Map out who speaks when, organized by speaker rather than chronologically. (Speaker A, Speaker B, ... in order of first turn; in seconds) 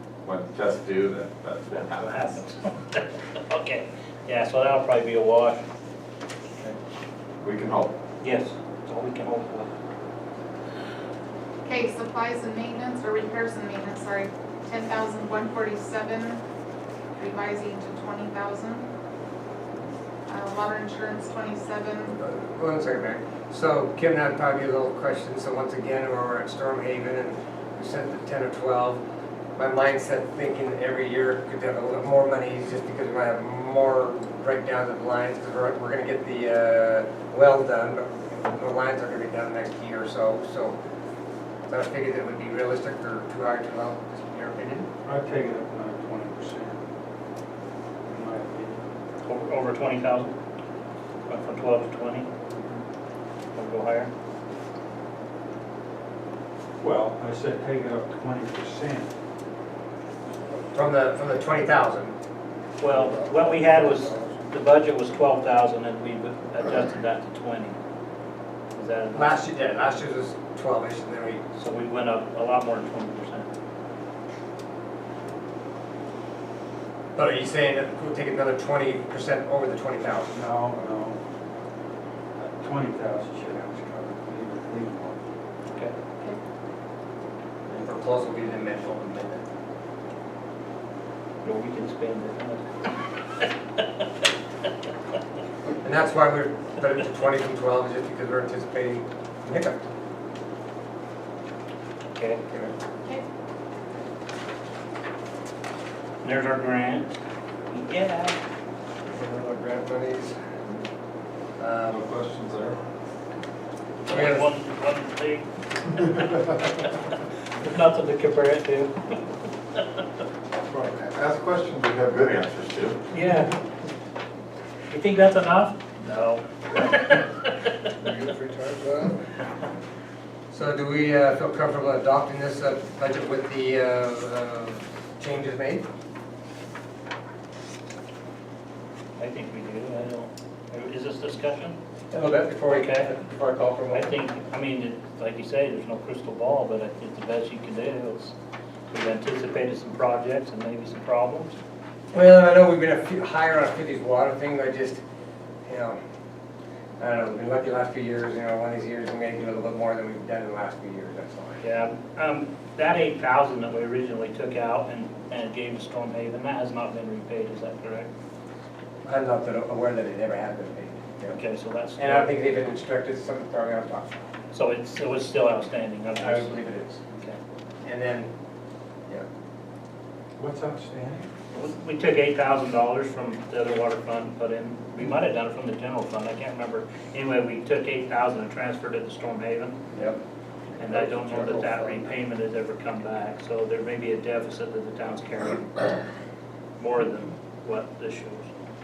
Speaker A: 0.2-2.2, 7.4-8.0, 111.9-112.8, 120.7-123.0
Speaker B: 1.7-5.6, 8.2-9.7, 49.2-50.3, 51.3-52.3, 53.5-54.1, 62.8-67.8, 68.7-69.4, 71.5-73.5, 91.4-92.6, 102.1-102.4, 106.2-107.2, 107.7-108.4, 114.1-117.1, 117.6-119.2, 123.1-123.5, 124.9-127.7, 139.2-141.8, 142.7-143.1, 143.9-148.3, 148.9-151.6, 161.6-168.1, 171.3-172.3, 174.5-176.5, 177.1-177.4, 181.5-189.7, 190.8-195.9, 196.8-198.5
Speaker C: 11.6-16.4, 17.1-18.9, 20.3-22.1, 62.9-64.2, 128.0-129.2, 191.1-191.9
Speaker D: 22.1-29.0, 29.6-40.8, 41.7-44.9, 60.7-62.1, 69.1-71.4, 77.1-80.3, 87.7-89.4, 95.8-99.8, 102.5-102.7, 109.1-110.3, 111.6-112.0, 114.1-114.5, 130.5-135.8, 142.1-144.2, 152.1-155.0, 155.7-156.0, 157.0-161.6, 169.0-171.4, 172.0-174.1, 176.2-177.0, 177.8-178.3, 189.9-190.2
Speaker E: 45.0-46.8, 48.0-48.8, 52.5-52.8, 56.8-59.1, 80.3-81.2, 82.4-85.2, 180.4-181.3